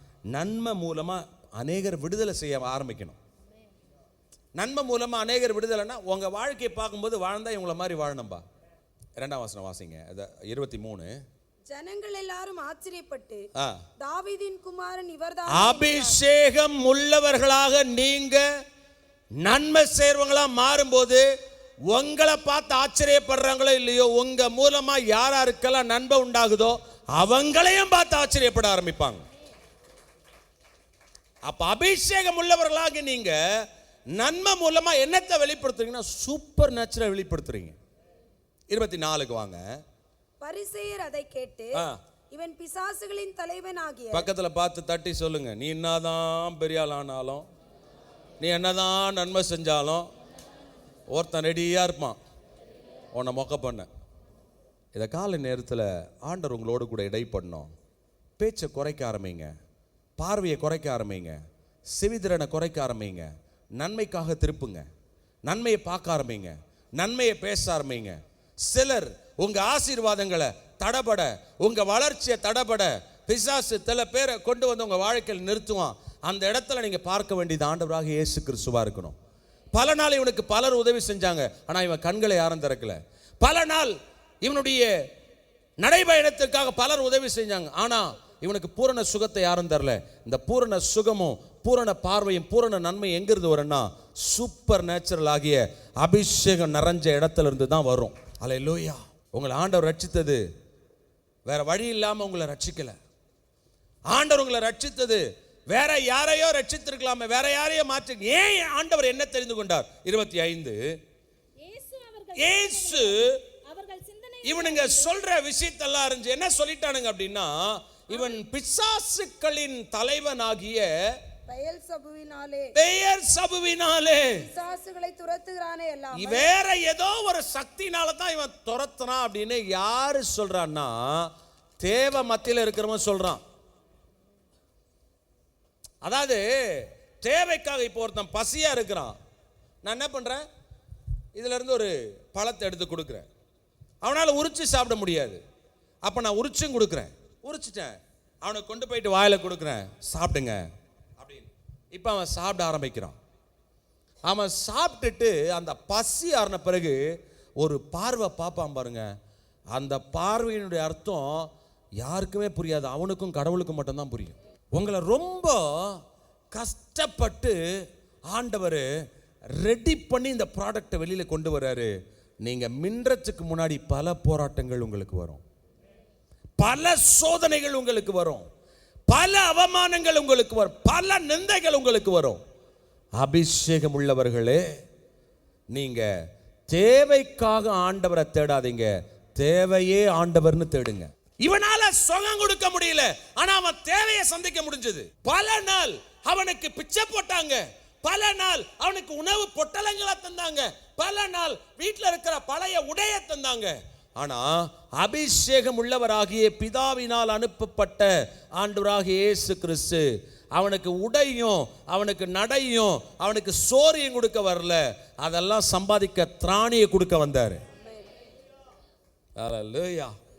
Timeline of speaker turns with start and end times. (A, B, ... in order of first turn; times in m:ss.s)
0:00.3-0:03.2 A
0:04.6-0:08.4 A
0:09.2-0:11.2 A
0:11.7-0:13.5 B
0:13.6-0:13.8 A
0:14.0-0:16.2 B
0:15.5-0:18.5 A
0:19.4-0:21.3 A
0:21.9-0:29.2 A
0:31.4-0:33.6 A
0:34.2-0:37.8 A
0:38.7-0:39.6 A
0:40.4-0:44.3 B
0:44.1-0:47.4 A
0:48.4-0:50.1 A
0:51.1-0:52.2 A
0:53.1-0:53.9 A
0:54.9-0:57.7 A
0:58.4-0:59.5 A
1:00.2-1:01.4 A
1:01.9-1:04.9 A
1:05.5-1:19.2 A
1:19.7-1:25.0 A
1:25.8-1:40.4 A
1:41.5-1:43.0 A
1:44.1-1:50.8 A
1:51.6-1:55.2 C
1:52.4-1:53.4 A
1:54.4-2:01.2 A
2:01.5-2:02.7 B
2:02.8-2:04.4 A
2:04.4-2:06.5 B
2:06.2-2:11.3 A
2:11.8-2:13.4 A
2:16.0-2:19.1 A
2:19.8-2:20.4 A
2:21.4-2:23.3 A
2:24.0-2:25.4 A
2:26.0-2:30.7 A
2:31.2-2:33.2 A
2:34.3-2:37.0 A
2:37.6-2:39.1 A
2:39.7-2:41.5 A
2:42.0-2:46.0 A
2:46.5-2:47.6 A
2:48.3-2:48.9 A
2:49.5-2:55.4 A
2:56.6-2:58.5 A
2:59.1-3:02.4 A
3:03.2-3:04.7 A
3:05.7-3:06.1 A
3:06.7-3:37.6 A
3:37.8-3:38.1 B
3:39.4-3:40.1 A